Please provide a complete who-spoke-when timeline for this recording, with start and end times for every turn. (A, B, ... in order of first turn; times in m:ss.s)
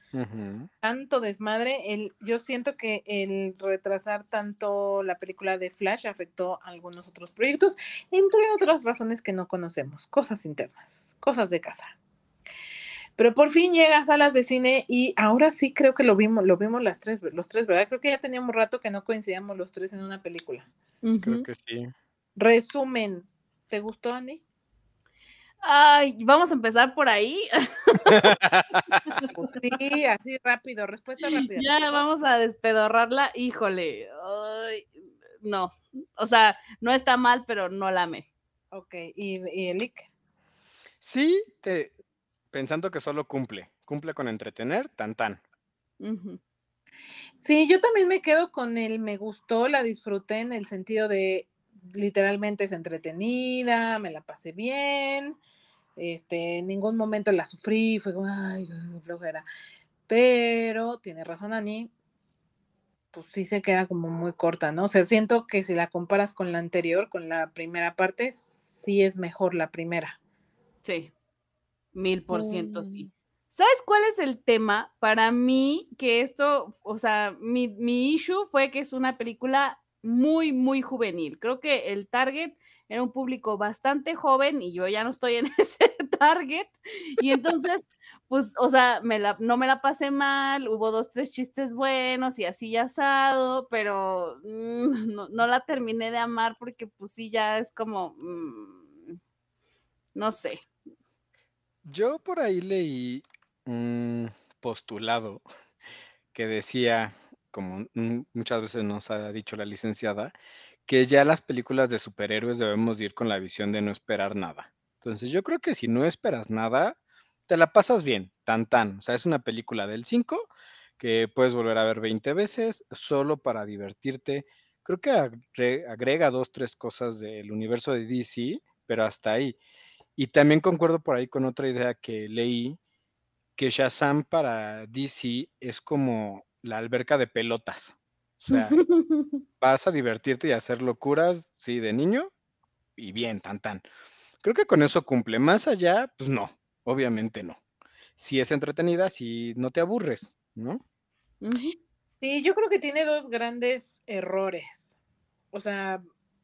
0:00.1-0:00.7 A
0:00.8-0:12.0 B
0:13.2-0:20.7 B
0:21.0-0:21.5 C
0:21.2-0:21.9 A
0:22.4-0:24.4 B
0:25.6-0:28.3 C
0:28.1-0:29.2 A
0:28.9-0:29.4 C
0:29.4-0:32.0 B
0:31.4-0:38.3 C
0:38.7-0:40.1 B
0:41.0-0:41.9 A
0:42.5-0:45.4 A
0:46.0-0:46.4 C
0:47.4-0:55.4 B
0:56.0-0:59.5 B
1:00.1-1:01.9 B
1:03.1-1:10.2 B
1:10.8-1:11.1 C
1:11.9-1:39.2 C
1:12.3-1:13.1 B
1:40.2-1:40.6 C
1:41.8-1:45.4 A
1:46.3-1:50.3 A
1:50.9-2:09.6 A
2:10.2-2:12.8 A
2:13.6-2:18.8 A
2:18.5-2:19.4 C
2:19.6-2:22.3 A
2:23.0-2:23.8 A
2:24.4-2:27.6 A
2:28.2-2:30.8 A
2:31.4-2:31.8 C
2:32.2-2:35.0 B
2:35.5-2:36.0 B